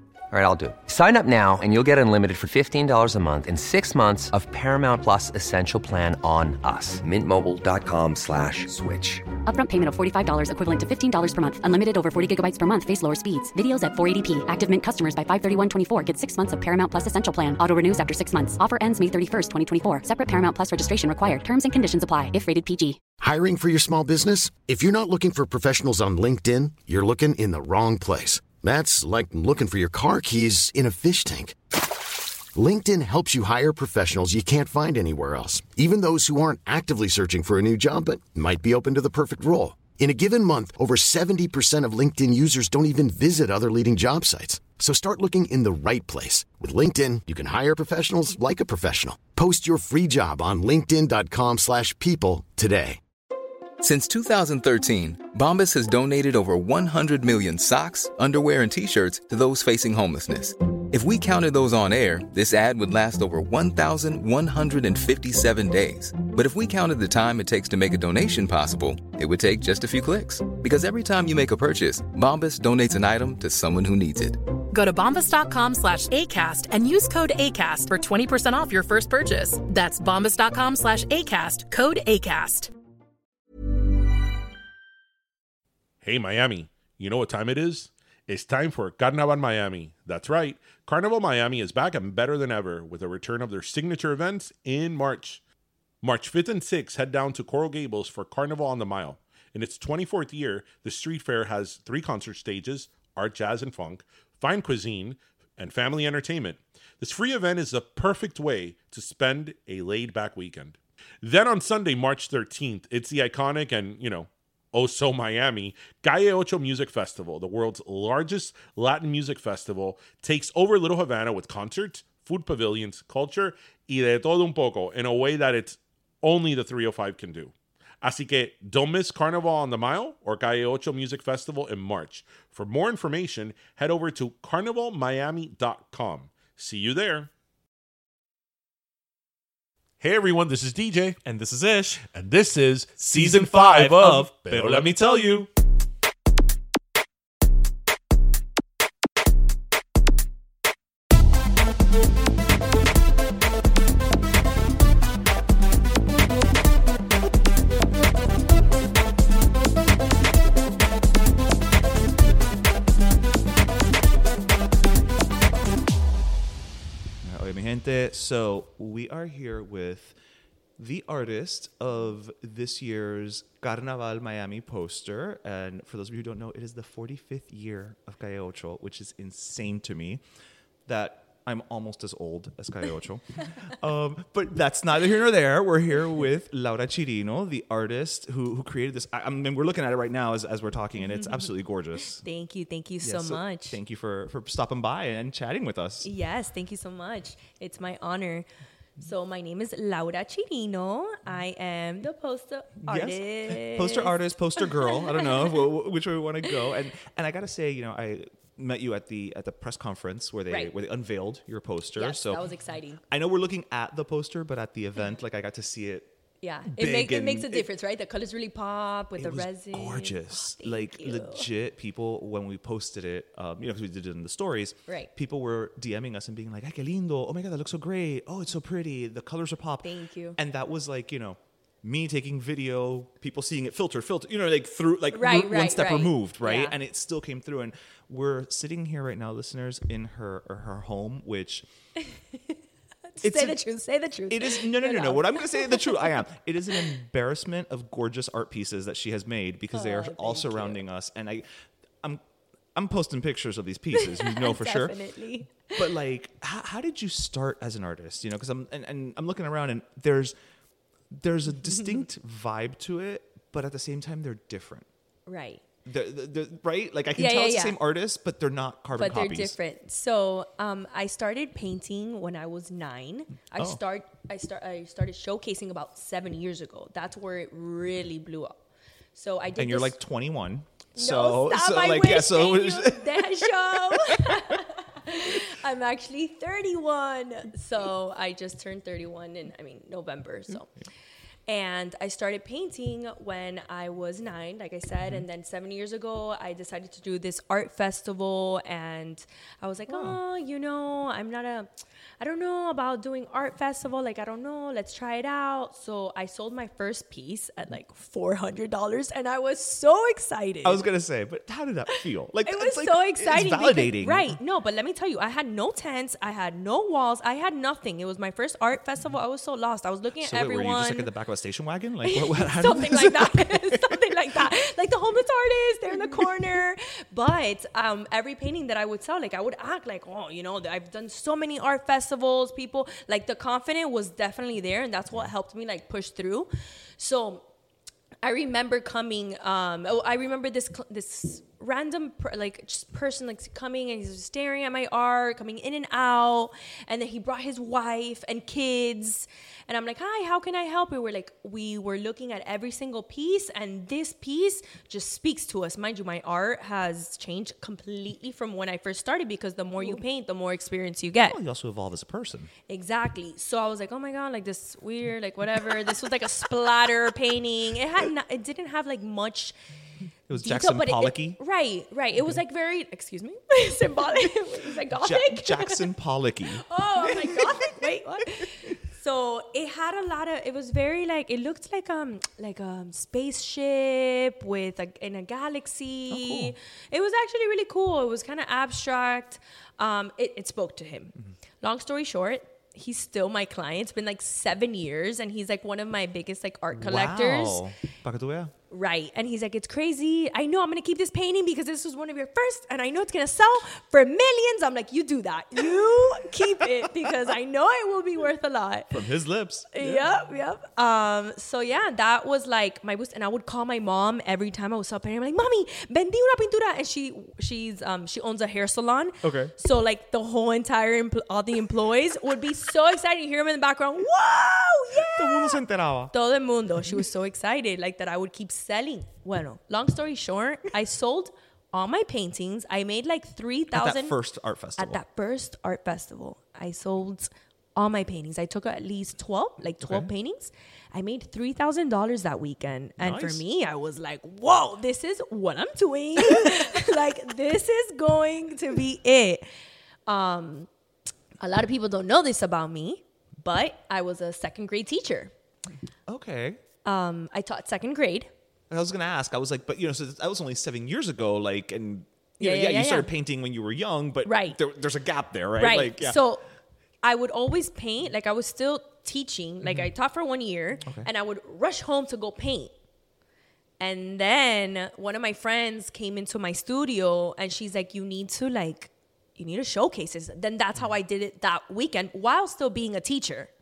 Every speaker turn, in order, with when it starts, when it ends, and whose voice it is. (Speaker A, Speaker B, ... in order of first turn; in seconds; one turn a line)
Speaker A: 0.3-9.3
Speaker B: 9.4-23.0
Speaker C: 23.2-31.6
Speaker C: 32.5-53.0
Speaker D: 53.8-74.5
Speaker E: 74.7-82.7
Speaker F: 86.0-95.4
Speaker F: 96.0-137.3
Speaker F: 140.0-141.2
Speaker G: 141.2-142.1
Speaker F: 142.1-145.2
Speaker G: 143.0-145.5
Speaker G: 167.2-170.2
Speaker G: 170.8-180.2
Speaker G: 180.9-192.2
Speaker H: 191.1-191.5
Speaker H: 192.2-193.8
Speaker G: 193.0-196.1
Speaker H: 196.0-198.5
Speaker H: 199.0-205.6
Speaker G: 202.8-212.4
Speaker H: 210.5-210.7
Speaker H: 211.9-213.0
Speaker G: 213.1-216.1
Speaker H: 216.4-221.5
Speaker G: 216.7-217.7
Speaker G: 219.2-241.7
Speaker H: 229.8-230.4
Speaker H: 235.1-236.8
Speaker H: 243.1-246.1
Speaker G: 243.2-243.6
Speaker G: 244.3-251.5
Speaker H: 249.7-250.8
Speaker G: 252.8-255.0
Speaker H: 254.0-255.9
Speaker G: 255.7-260.4
Speaker G: 261.1-264.9
Speaker H: 265.3-265.6
Speaker G: 265.9-269.6
Speaker H: 267.1-267.8
Speaker H: 268.9-278.6
Speaker H: 279.1-280.0
Speaker G: 279.6-284.5
Speaker H: 281.0-290.7
Speaker H: 291.5-301.7
Speaker G: 299.9-300.2
Speaker H: 302.2-310.9
Speaker G: 310.6-314.4
Speaker H: 312.4-321.1
Speaker G: 320.2-324.0
Speaker H: 322.0-337.4
Speaker H: 338.2-361.4
Speaker G: 361.3-362.5
Speaker H: 362.7-369.6
Speaker G: 370.3-371.4
Speaker H: 370.4-375.9
Speaker G: 374.9-377.9
Speaker H: 376.5-397.6
Speaker G: 386.1-386.6
Speaker G: 396.8-398.5
Speaker H: 398.7-409.0
Speaker G: 408.9-410.1
Speaker H: 409.7-425.6
Speaker G: 419.2-419.5
Speaker G: 425.0-426.1
Speaker H: 426.1-434.2
Speaker G: 433.7-435.0
Speaker H: 434.8-449.4
Speaker G: 439.8-440.1
Speaker G: 443.0-443.4
Speaker H: 450.1-450.7
Speaker H: 451.4-455.3
Speaker G: 456.1-456.6
Speaker H: 456.9-458.3
Speaker G: 458.7-466.2
Speaker H: 462.4-463.1
Speaker H: 464.2-464.6
Speaker H: 465.6-466.4
Speaker H: 467.0-472.7
Speaker G: 470.8-471.1
Speaker H: 473.8-483.5